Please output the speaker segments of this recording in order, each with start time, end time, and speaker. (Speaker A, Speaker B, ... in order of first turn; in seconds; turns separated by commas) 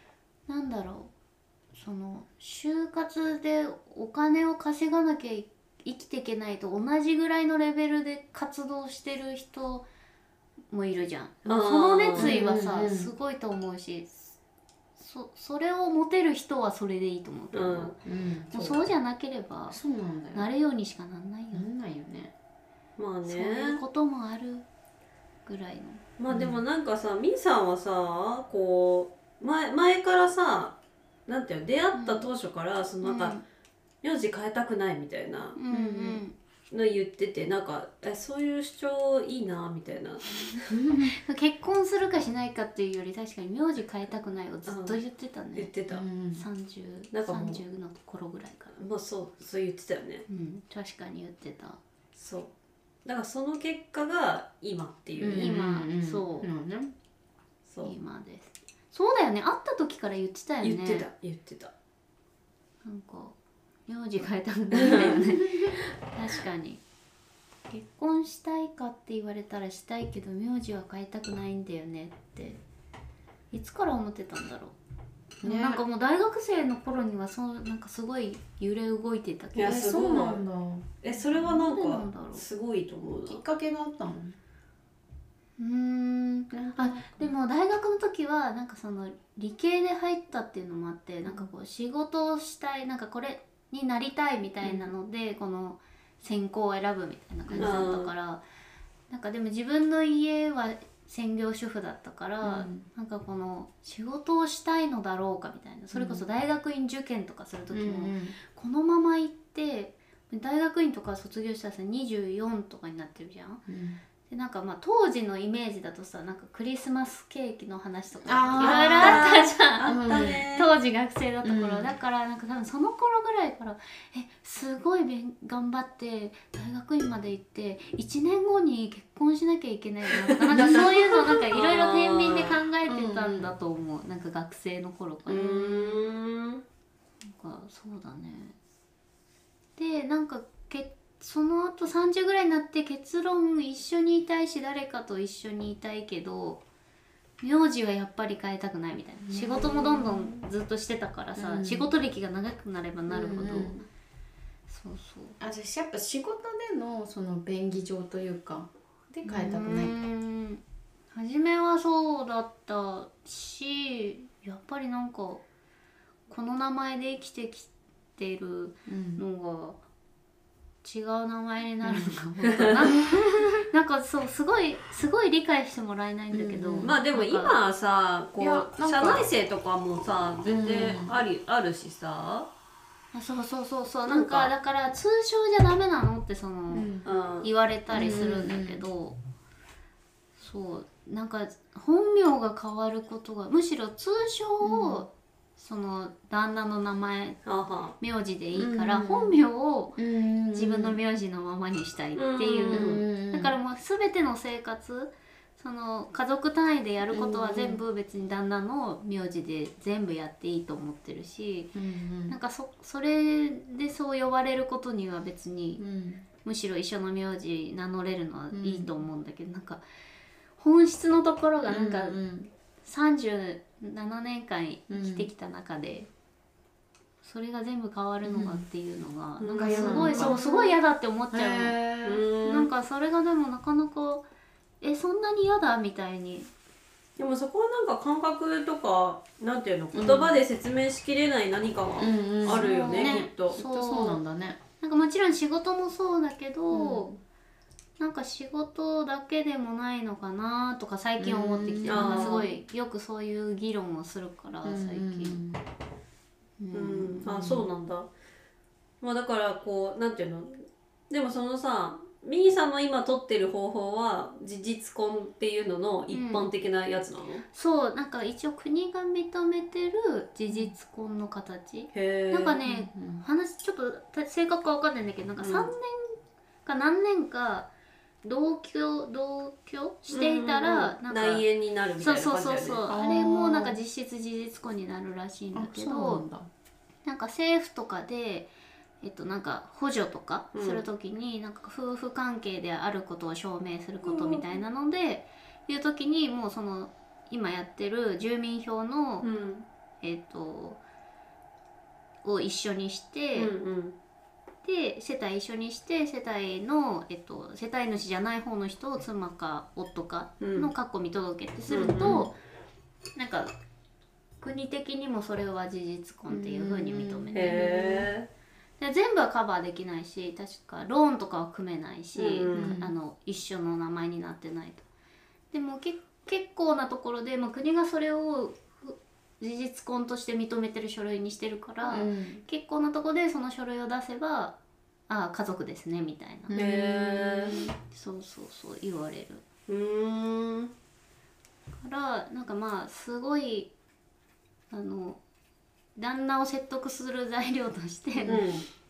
Speaker A: 0.5-1.1, Speaker A: 1.7-9.8, Speaker A: 10.7-14.2, Speaker B: 11.4-12.3, Speaker C: 12.2-13.1, Speaker A: 15.0-18.0, Speaker B: 17.5-17.9, Speaker C: 18.0-18.8, Speaker A: 18.5-19.8, Speaker C: 19.7-20.5, Speaker A: 20.3-21.7, Speaker C: 21.5-22.3, Speaker B: 23.0-23.8, Speaker A: 23.2-24.7, Speaker A: 25.5-26.0, Speaker B: 26.2-33.4, Speaker C: 26.3-26.6, Speaker A: 31.9-32.3, Speaker A: 33.0-33.4, Speaker B: 34.0-35.6, Speaker A: 35.6-36.4, Speaker C: 35.7-36.2, Speaker B: 36.7-40.7, Speaker C: 40.7-41.2, Speaker A: 41.1-45.7, Speaker B: 44.7-45.0, Speaker B: 45.5-46.0, Speaker C: 45.9-46.5, Speaker A: 46.4-48.8, Speaker B: 47.1-47.6, Speaker B: 48.8-50.2, Speaker A: 50.3-51.8, Speaker B: 52.1-52.5, Speaker B: 53.0-55.5, Speaker C: 55.2-57.0, Speaker A: 55.4-56.5, Speaker B: 57.7-58.0, Speaker A: 57.8-61.1, Speaker B: 60.6-61.7, Speaker A: 62.8-63.4, Speaker A: 63.9-66.8, Speaker B: 64.8-65.2, Speaker C: 64.9-65.8, Speaker A: 67.7-72.6, Speaker A: 73.5-74.8, Speaker C: 75.4-75.8, Speaker A: 75.4-79.9, Speaker B: 79.5-80.4, Speaker C: 79.6-80.9, Speaker B: 81.0-83.4, Speaker A: 81.2-82.4, Speaker C: 83.3-84.4, Speaker A: 85.6-98.4, Speaker C: 86.5-87.3, Speaker C: 94.6-94.9, Speaker C: 97.5-97.9, Speaker B: 97.6-98.1, Speaker A: 99.1-113.6, Speaker C: 102.4-102.9, Speaker C: 105.9-106.3, Speaker C: 107.7-108.4, Speaker C: 113.7-114.0, Speaker A: 114.3-136.1, Speaker C: 118.2-119.3, Speaker B: 118.5-120.7, Speaker C: 119.8-120.5, Speaker C: 121.4-121.9, Speaker B: 130.5-132.6, Speaker C: 130.5-130.9, Speaker C: 132.9-133.5, Speaker B: 135.3-136.6, Speaker A: 137.3-138.6, Speaker A: 139.8-146.6, Speaker A: 147.4-153.8, Speaker C: 149.2-150.5, Speaker C: 151.4-151.9, Speaker C: 153.1-153.8, Speaker A: 154.7-155.4, Speaker C: 155.4-160.0, Speaker A: 159.2-165.4, Speaker A: 166.3-169.8, Speaker C: 168.9-169.2, Speaker A: 170.8-177.6, Speaker C: 171.8-173.6, Speaker B: 172.5-172.8, Speaker C: 176.3-176.9, Speaker B: 176.8-182.5, Speaker C: 178.4-179.3, Speaker C: 180.4-181.2, Speaker A: 183.1-189.2, Speaker B: 184.1-184.5, Speaker C: 186.7-187.1, Speaker B: 187.0-187.5, Speaker C: 187.9-188.8, Speaker A: 190.4-197.4, Speaker C: 194.6-195.1, Speaker B: 197.4-198.0, Speaker A: 198.0-200.0, Speaker C: 198.6-199.4, Speaker C: 200.0-201.0, Speaker A: 200.5-211.7, Speaker B: 202.2-203.0, Speaker C: 202.7-203.6, Speaker C: 207.1-207.8, Speaker C: 211.7-212.4, Speaker A: 212.3-215.8, Speaker C: 215.8-216.3, Speaker A: 216.4-219.8, Speaker C: 218.5-218.9, Speaker A: 220.6-222.2, Speaker C: 221.7-222.5, Speaker A: 222.8-226.1, Speaker C: 224.9-225.3, Speaker A: 227.2-231.8, Speaker C: 228.2-228.7, Speaker B: 229.4-230.4, Speaker C: 229.6-230.7, Speaker C: 231.3-232.3, Speaker B: 232.0-232.7, Speaker A: 232.4-234.2, Speaker A: 234.8-236.5, Speaker B: 237.2-243.6, Speaker C: 239.9-240.4, Speaker C: 242.0-244.6, Speaker A: 242.4-244.2, Speaker A: 244.8-247.1, Speaker C: 246.7-247.2, Speaker A: 248.0-255.4, Speaker C: 251.2-252.5, Speaker B: 251.9-252.5, Speaker C: 254.6-255.6, Speaker A: 256.6-257.5, Speaker B: 256.7-258.1, Speaker C: 257.3-257.6, Speaker B: 259.0-267.4, Speaker A: 266.1-266.5, Speaker A: 267.5-277.7, Speaker B: 271.9-272.6, Speaker C: 272.6-273.3, Speaker B: 275.4-275.7, Speaker A: 278.2-281.4, Speaker B: 280.1-282.8, Speaker A: 282.0-286.2, Speaker C: 282.9-283.8, Speaker C: 285.5-286.5, Speaker A: 287.1-288.5, Speaker A: 289.0-299.3, Speaker B: 290.5-290.9, Speaker B: 294.0-294.6, Speaker B: 299.2-299.7, Speaker A: 300.0-300.8, Speaker A: 302.2-303.5, Speaker B: 303.4-304.0, Speaker A: 304.6-312.3, Speaker B: 310.4-310.7, Speaker B: 311.7-312.3, Speaker A: 313.1-313.5, Speaker A: 314.4-317.9, Speaker C: 316.3-318.1, Speaker B: 317.3-318.3, Speaker A: 318.8-324.8, Speaker B: 322.1-322.8, Speaker C: 322.5-322.9, Speaker A: 325.5-334.6, Speaker C: 331.9-332.4, Speaker A: 335.1-336.6, Speaker C: 336.5-337.7, Speaker B: 336.5-337.6, Speaker A: 337.5-339.4, Speaker B: 339.7-340.7, Speaker A: 341.8-343.7, Speaker A: 344.7-345.2, Speaker A: 346.0-348.4, Speaker C: 348.2-348.4, Speaker B: 348.3-348.6